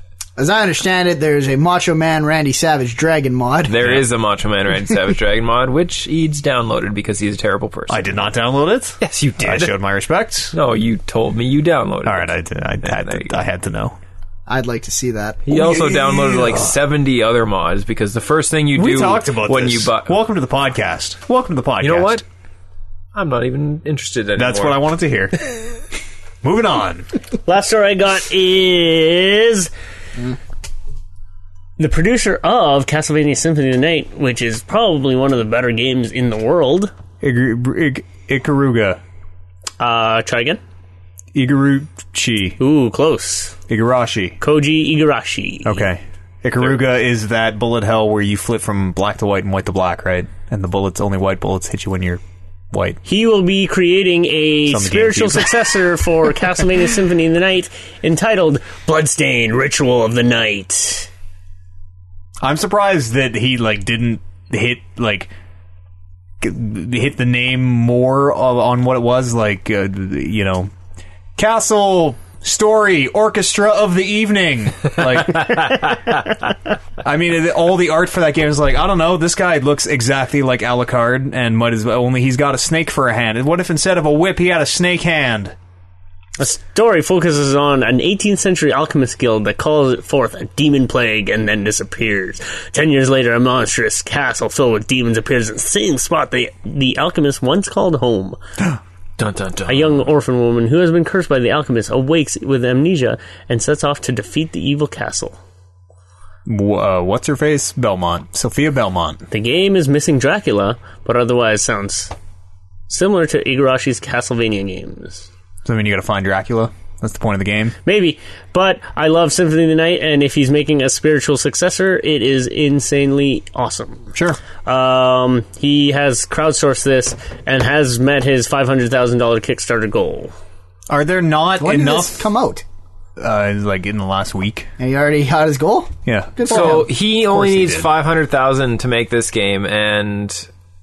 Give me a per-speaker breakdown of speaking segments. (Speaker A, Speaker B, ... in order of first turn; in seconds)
Speaker A: 0.4-3.8, 14.5-15.5, 131.6-132.6, 134.8-136.9
Speaker B: 3.7-8.3, 9.0-9.7, 10.5-12.3, 12.8-13.4, 15.5-20.1, 21.8-22.2, 23.1-24.8, 99.2-100.1, 136.5-140.5
Speaker C: 7.9-10.5, 12.0-14.0, 15.5-16.8, 18.8-22.2, 24.4-25.4, 26.4-27.1, 37.2-39.0, 41.3-42.6, 43.7-44.4, 45.6-52.2, 52.7-53.0, 54.7-55.5, 62.4-65.3, 66.4-70.7, 71.4-76.0, 77.0-85.5, 106.5-109.2, 115.7-117.8, 130.9-132.3, 133.2-134.7, 136.1-137.9
Speaker D: 27.5-29.7, 31.8-36.9, 39.8-40.6, 42.6-43.5, 44.4-45.9, 53.0-61.1, 86.4-98.4, 99.7-105.4, 109.3-112.1, 112.9-115.3, 117.8-124.1, 124.7-130.3